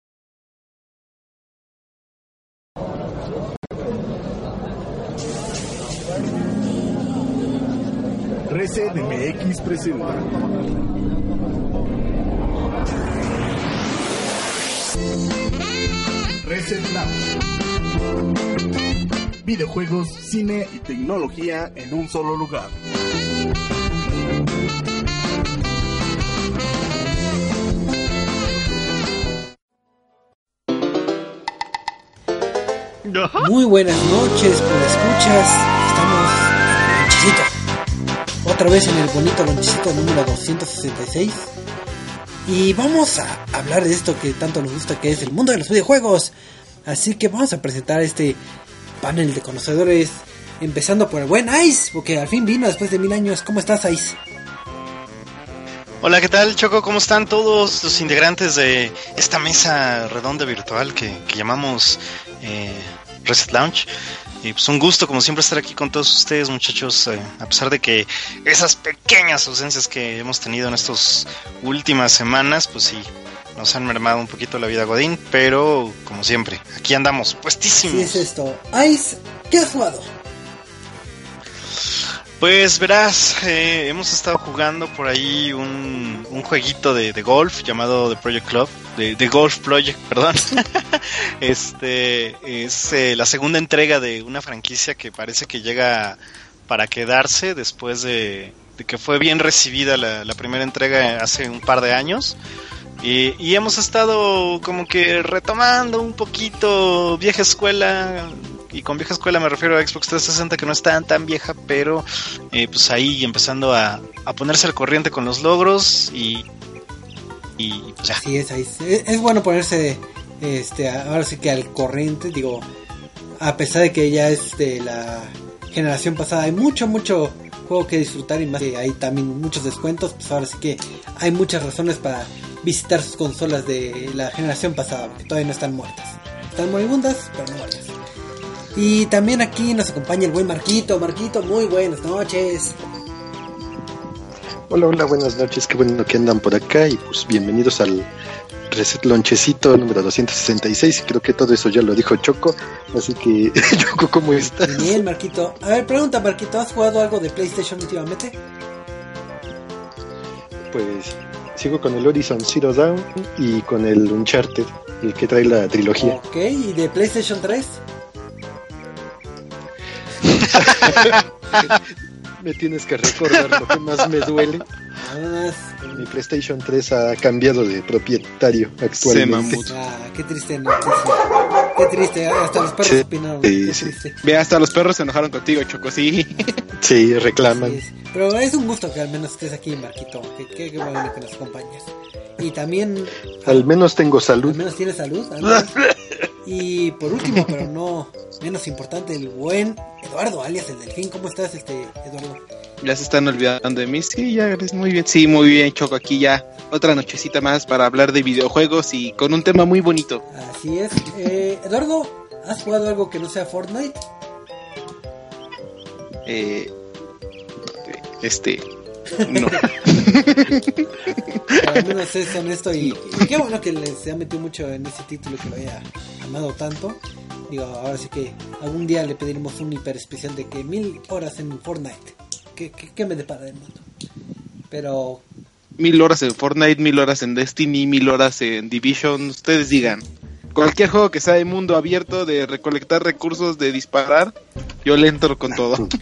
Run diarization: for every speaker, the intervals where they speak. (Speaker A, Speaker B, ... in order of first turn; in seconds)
Speaker A: 8.5-10.4, 16.4-17.3, 19.4-22.8
Speaker B: 33.4-37.5, 38.4-41.5, 42.5-46.3, 46.9-48.4, 49.0-54.2, 77.8-80.1, 118.2-122.7, 123.4-137.9, 138.8-142.8, 154.5-158.4, 166.0-167.8, 175.0-176.1, 179.5-184.2, 187.4-193.7, 194.4-195.8, 196.4-202.4, 210.3-214.0, 219.2-219.7, 221.6-233.8, 234.7-235.2
Speaker C: 56.0-63.9, 64.4-78.2, 81.8-102.4, 103.0-116.5, 117.6-118.2, 170.4-170.9
Speaker D: 144.7-148.1, 148.7-155.0, 160.7-166.2, 170.8-171.1, 172.4-174.7, 175.9-179.7, 182.8-184.0, 186.8-187.8, 193.4-194.6
Speaker E: 179.0-179.8, 184.2-186.5, 202.8-210.2, 216.3-216.7, 217.8-218.6, 219.2-220.9, 235.8-244.3, 244.9-245.9